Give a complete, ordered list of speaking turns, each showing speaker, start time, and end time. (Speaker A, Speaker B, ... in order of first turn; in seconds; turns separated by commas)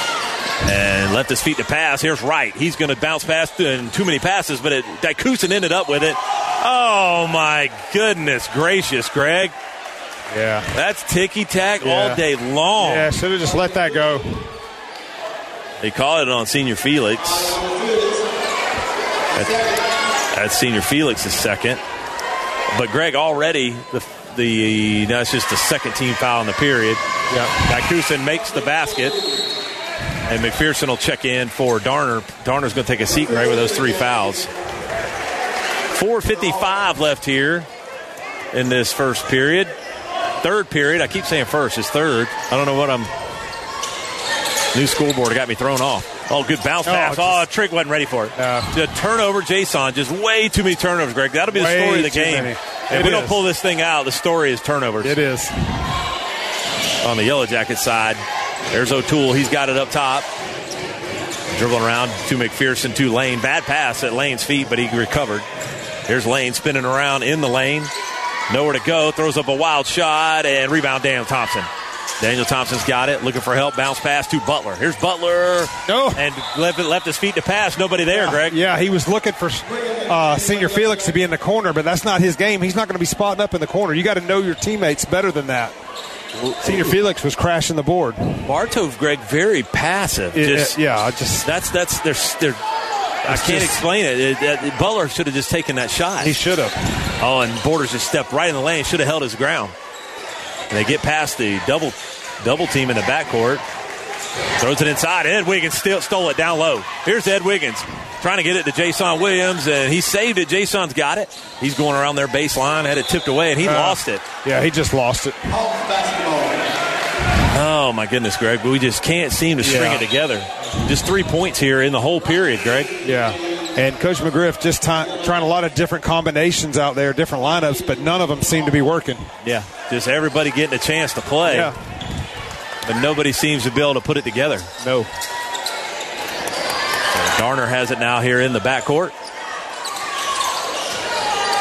Speaker A: 0.6-9.6, Speaker B: 10.3-10.7, Speaker A: 10.7-13.1, Speaker B: 11.8-12.2, Speaker B: 12.8-14.5, Speaker A: 15.8-17.6, Speaker A: 19.3-19.7, Speaker A: 20.3-21.8, Speaker A: 22.7-27.0, Speaker B: 27.3-27.6, Speaker A: 27.6-29.2, Speaker A: 30.2-34.5, Speaker A: 35.9-37.7, Speaker A: 38.5-39.7, Speaker A: 40.4-43.1, Speaker A: 44.7-55.2, Speaker B: 46.8-47.5, Speaker B: 48.4-48.8, Speaker B: 51.5-53.4, Speaker B: 55.0-55.9, Speaker A: 57.0-60.3, Speaker A: 61.5-65.5, Speaker A: 66.1-67.9, Speaker A: 68.5-71.7, Speaker A: 72.2-78.6, Speaker B: 75.9-76.2, Speaker B: 78.1-85.7, Speaker A: 86.3-86.9, Speaker B: 86.6-88.5, Speaker A: 88.4-90.8, Speaker B: 90.3-91.5, Speaker A: 91.4-92.6, Speaker A: 93.2-96.4, Speaker B: 93.3-93.8, Speaker B: 96.2-97.1, Speaker A: 97.2-99.7, Speaker A: 100.7-103.6, Speaker A: 104.6-114.2, Speaker B: 113.6-115.6, Speaker A: 117.4-122.9, Speaker B: 119.6-120.0, Speaker B: 123.0-129.3, Speaker A: 129.4-131.7, Speaker B: 131.4-131.8, Speaker A: 132.8-134.7, Speaker B: 134.8-135.1, Speaker A: 137.1-139.1